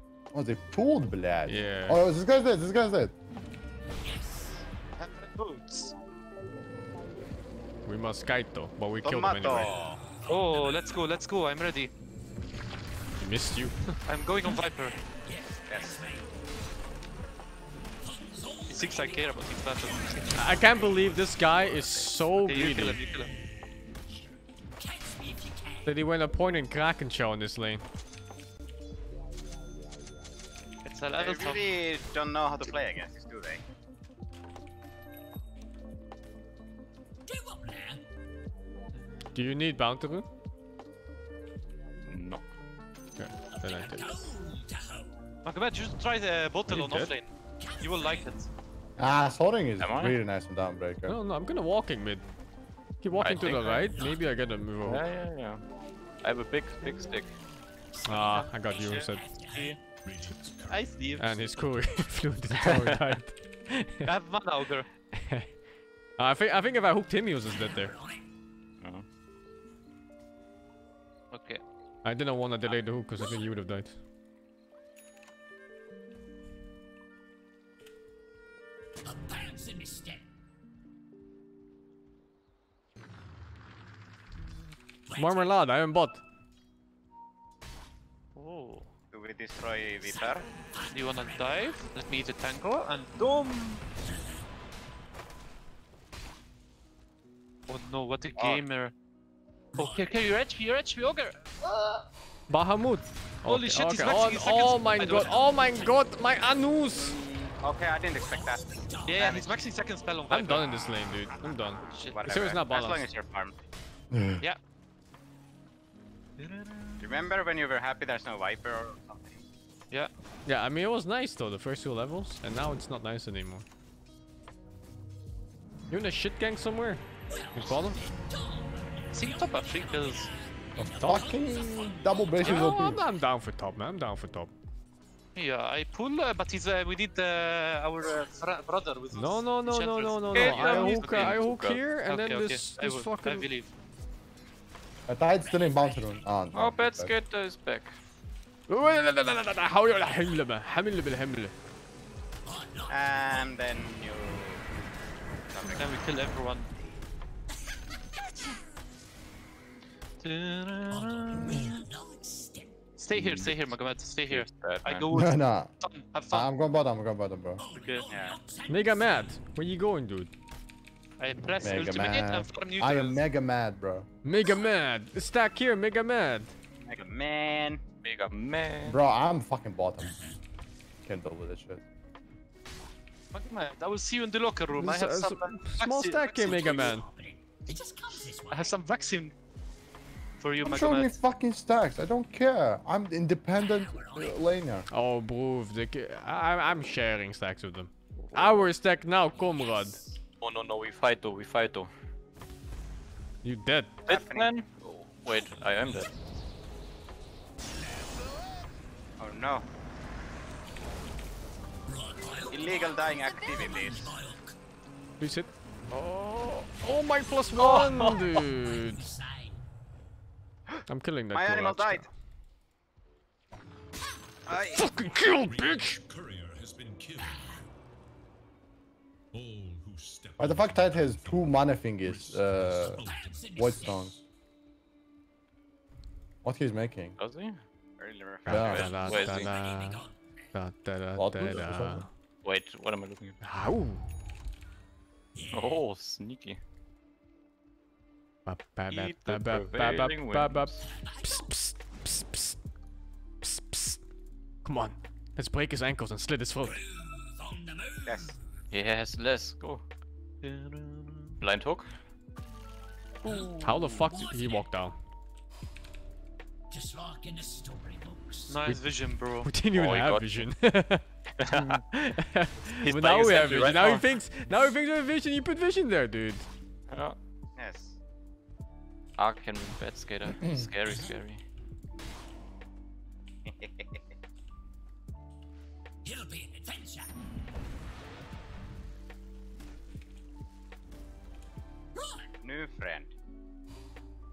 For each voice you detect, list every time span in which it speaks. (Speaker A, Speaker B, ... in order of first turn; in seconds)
Speaker A: 0.3-3.1, 49.0-51.2, 114.1-114.4, 131.0-133.0, 145.1-147.1, 163.2-163.4, 165.1-165.7, 166.3-167.6, 171.6-174.1, 178.8-180.1, 181.0-181.8, 190.6-194.9, 230.4-233.0, 233.6-234.1, 236.4-237.2, 238.5-238.9, 241.2-242.0, 280.4-280.7
Speaker B: 1.5-2.0, 7.8-9.8, 13.2-13.9, 20.3-23.0, 25.8-27.8, 39.3-40.2, 43.2-44.2, 46.7-47.1, 51.0-52.2, 53.0-55.0, 58.0-59.3, 61.2-64.1, 65.2-65.5, 66.2-67.9, 72.0-74.0, 85.1-86.2, 102.5-107.1, 110.3-113.1, 120.5-123.7, 125.9-127.0, 127.5-128.0, 130.8-131.3, 132.4-134.5, 139.1-143.4, 148.7-151.5, 168.7-170.3, 174.2-176.5, 184.8-187.0, 194.9-200.0, 203.4-204.0, 215.2-219.1, 220.9-222.1, 224.7-226.0, 238.5-242.1, 243.4-244.0, 248.4-252.6, 253.4-254.0, 254.6-256.8, 263.6-264.9, 269.4-276.4
Speaker C: 3.9-4.6, 9.8-11.1, 15.1-16.2, 18.0-22.3, 24.8-25.9, 37.2-38.0, 43.5-45.1, 47.6-48.3, 53.7-54.2, 57.4-59.7, 67.5-68.2, 79.0-80.2, 85.1-85.5, 90.1-91.8, 99.8-100.1, 108.2-109.3, 127.3-133.0, 145.4-146.2, 152.4-153.8, 158.1-158.6, 160.9-162.8, 167.6-169.5, 180.0-180.3, 186.4-188.7, 193.5-194.4, 199.3-200.2, 211.9-214.6, 218.7-219.6, 227.2-227.6, 233.0-234.1, 239.1-240.3, 245.3-245.8, 250.8-251.4, 256.6-258.4, 263.3-264.6, 266.7-268.6, 286.0-287.2, 291.9-292.2
Speaker D: 5.0-5.9, 10.3-11.9, 14.1-14.9, 18.7-20.5, 22.4-23.3, 30.8-31.6, 45.4-47.3, 47.8-48.5, 58.1-59.8, 60.7-61.4, 64.0-64.9, 71.3-71.6, 88.3-88.9, 90.9-93.8, 97.7-98.9, 99.8-102.0, 103.4-105.4, 109.1-110.7, 111.8-112.2, 116.4-117.0, 129.1-130.3, 135.3-141.4, 142.1-143.7, 155.7-156.7, 160.2-161.7, 163.0-166.5, 167.7-168.0, 171.2-173.2, 183.3-186.9, 188.5-189.3, 190.4-191.1, 260.4-261.4, 263.2-263.7, 268.5-269.5
Speaker E: 9.0-10.0, 15.7-16.0, 31.1-33.6, 89.1-90.5, 106.9-109.7, 112.1-113.6, 117.0-119.4, 152.9-154.6, 155.5-156.0, 168.1-168.4, 176.9-177.8, 204.1-204.5, 209.2-209.7, 212.5-214.1, 221.3-222.1, 224.5-224.8, 238.0-239.4, 258.1-258.3, 277.6-278.0, 283.4-284.0, 292.4-293.1
Speaker F: 42.1-42.4, 49.8-50.2, 53.1-53.9, 54.8-55.6, 56.2-57.3, 62.5-63.2, 140.3-141.8, 146.5-148.0, 164.3-165.1, 178.0-179.0, 198.2-198.7, 200.4-201.9, 204.1-206.1, 217.6-218.4, 237.2-237.6, 238.5-239.5, 242.4-243.4, 245.5-246.6, 248.9-250.8, 258.7-259.8, 261.4-261.9, 269.7-270.5, 271.4-271.8, 272.8-274.0, 276.9-277.2, 279.2-281.4
Speaker G: 60.0-61.1, 225.3-227.4, 229.3-234.2